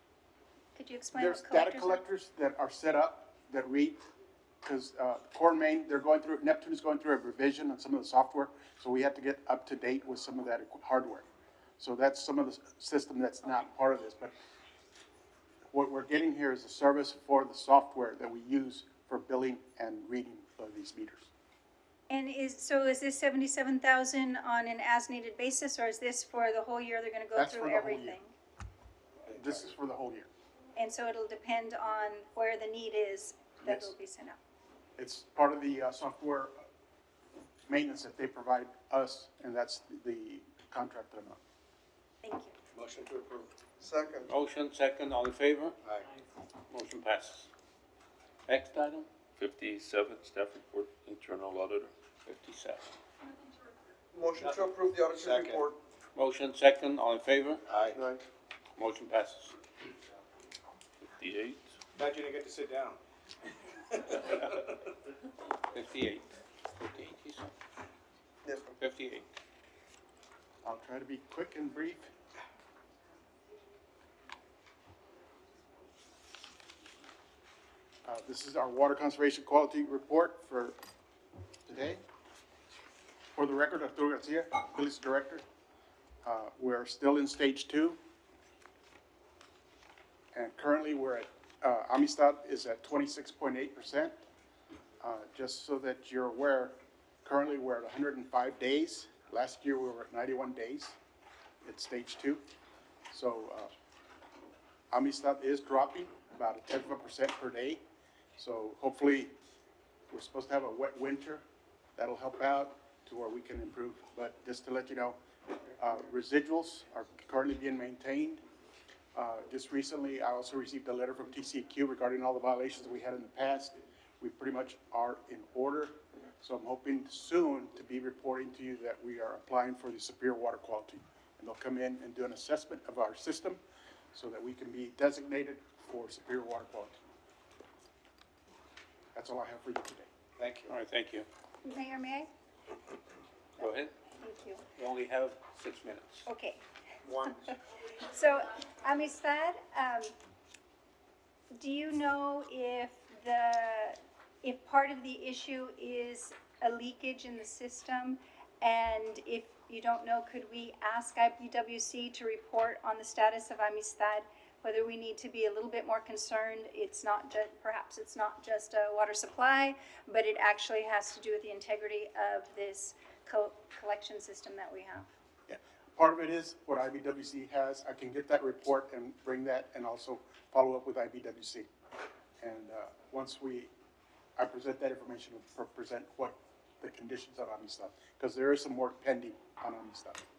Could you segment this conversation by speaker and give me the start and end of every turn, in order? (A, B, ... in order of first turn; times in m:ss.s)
0:00.7-0:02.0 A
0:01.1-0:04.0 B
0:04.6-0:11.2 B
0:11.8-0:14.3 B
0:15.7-0:21.3 B
0:22.1-0:28.3 A
0:27.3-0:28.2 B
0:29.2-0:30.3 B
0:30.8-0:34.4 A
0:33.6-0:33.9 B
0:35.0-0:36.6 B
0:37.7-0:41.4 B
0:42.2-0:42.5 A
0:42.7-0:43.6 C
0:43.8-0:44.3 D
0:44.3-0:45.8 E
0:46.7-0:47.5 E
0:48.5-0:49.1 E
0:49.4-0:51.9 F
0:52.2-0:52.9 E
0:54.1-0:55.8 D
0:55.2-0:55.6 C
0:56.1-0:57.6 E
0:57.7-0:58.0 C
0:57.8-0:58.2 D
0:58.8-0:59.5 E
1:01.2-1:01.6 F
1:02.0-1:03.0 C
1:04.1-1:04.7 C
1:04.1-1:04.6 E
1:05.7-1:07.5 E
1:08.4-1:08.7 D
1:08.8-1:09.2 E
1:10.6-1:12.1 B
1:18.0-1:20.8 B
1:21.6-1:22.0 B
1:23.3-1:25.4 B
1:26.2-1:28.0 B
1:30.3-1:34.2 B
1:35.0-1:41.0 B
1:41.6-1:42.4 B
1:43.1-1:43.7 B
1:44.9-1:47.8 B
1:48.4-1:49.3 B
1:50.1-1:51.4 B
1:52.0-1:55.2 B
1:55.8-1:58.4 B
1:59.1-2:13.6 B
2:14.1-2:17.0 B
2:19.1-2:20.1 B
2:20.4-2:20.7 C
2:20.7-2:21.2 E
2:21.6-2:22.3 A
2:23.6-2:23.9 E
2:24.2-2:24.6 A
2:24.8-2:26.2 E
2:26.2-2:26.6 A
2:27.0-2:27.4 D
2:27.3-2:30.1 A
2:31.5-2:55.0 A
2:55.5-3:01.7 B
3:02.4-3:03.7 B
3:04.4-3:10.2 B